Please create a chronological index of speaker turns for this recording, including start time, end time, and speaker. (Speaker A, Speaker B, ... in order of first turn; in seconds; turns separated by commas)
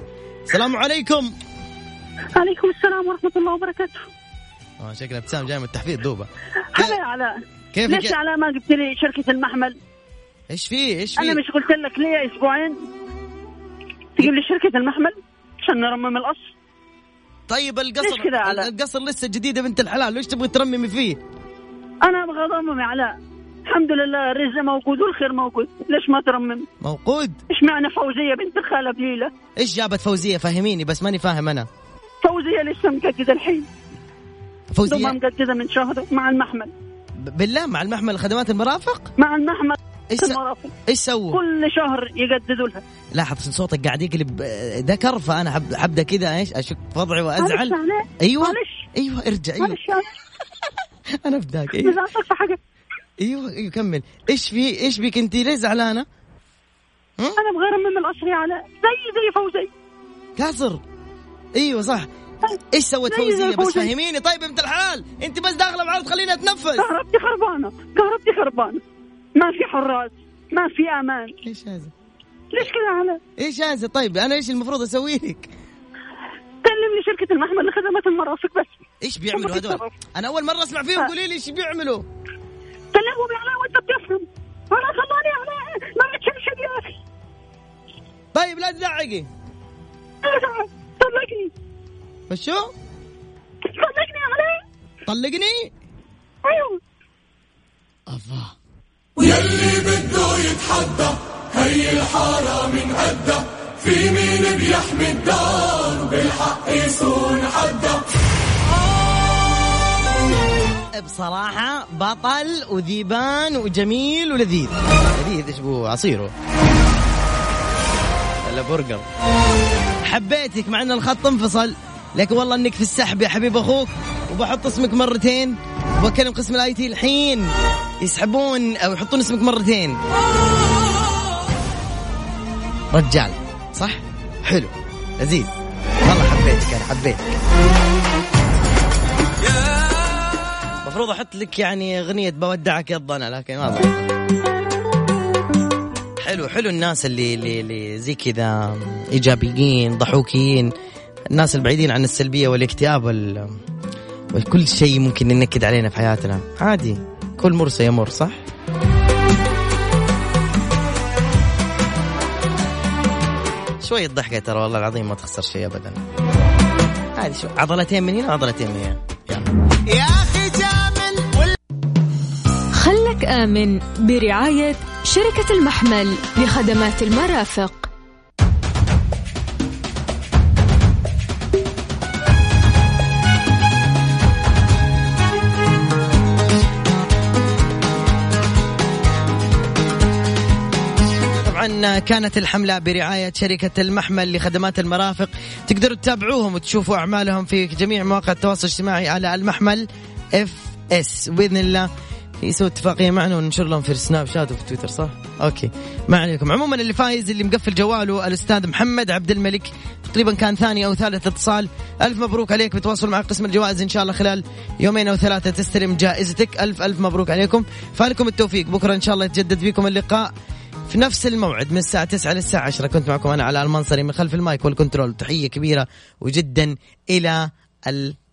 Speaker A: 0.5-1.4, Speaker B: 2.4-4.1, Speaker A: 4.8-7.0, Speaker B: 6.7-7.3, Speaker A: 7.7-8.2, Speaker B: 7.9-9.8, Speaker A: 10.5-11.4, Speaker B: 11.2-12.8, Speaker B: 14.2-16.5, Speaker A: 17.5-21.2, Speaker B: 18.0-18.7, Speaker B: 22.0-23.1, Speaker B: 23.7-26.7, Speaker A: 26.8-27.4, Speaker B: 27.5-29.3, Speaker A: 29.6-31.7, Speaker B: 32.2-33.7, Speaker A: 34.7-35.2, Speaker B: 34.9-36.7, Speaker A: 37.2-39.1, Speaker B: 39.2-40.7, Speaker A: 40.1-41.4, Speaker B: 41.3-42.8, Speaker A: 43.1-49.8, Speaker B: 47.4-48.9, Speaker B: 49.6-50.1, Speaker A: 51.2-52.0, Speaker B: 51.8-52.6, Speaker A: 53.2-56.1, Speaker B: 57.4-59.7, Speaker A: 60.4-60.8, Speaker A: 61.6-62.1, Speaker A: 62.7-66.9, Speaker B: 63.1-63.9, Speaker B: 66.8-68.8, Speaker B: 69.4-71.3, Speaker A: 71.4-71.9, Speaker B: 72.5-73.2, Speaker A: 73.4-75.5, Speaker B: 76.6-78.8, Speaker A: 79.0-82.0, Speaker B: 79.3-79.9, Speaker B: 82.9-87.0, Speaker A: 88.3-89.3, Speaker B: 90.2-91.5, Speaker A: 92.3-92.7, Speaker B: 93.7-94.6, Speaker A: 95.1-95.7, Speaker B: 96.5-96.8, Speaker A: 98.1-98.5, Speaker C: 99.5-101.0, Speaker C: 101.8-107.8, Speaker A: 110.9-116.3, Speaker A: 118.5-119.0, Speaker A: 120.0-127.5, Speaker A: 128.0-130.0, Speaker A: 132.9-137.4, Speaker A: 140.8-144.1, Speaker A: 146.2-150.7, Speaker A: 151.3-153.6, Speaker A: 154.3-158.4, Speaker A: 163.8-166.0, Speaker A: 167.2-171.6, Speaker D: 172.8-177.9, Speaker A: 191.4-201.9, Speaker A: 202.4-220.3, Speaker A: 220.9-228.2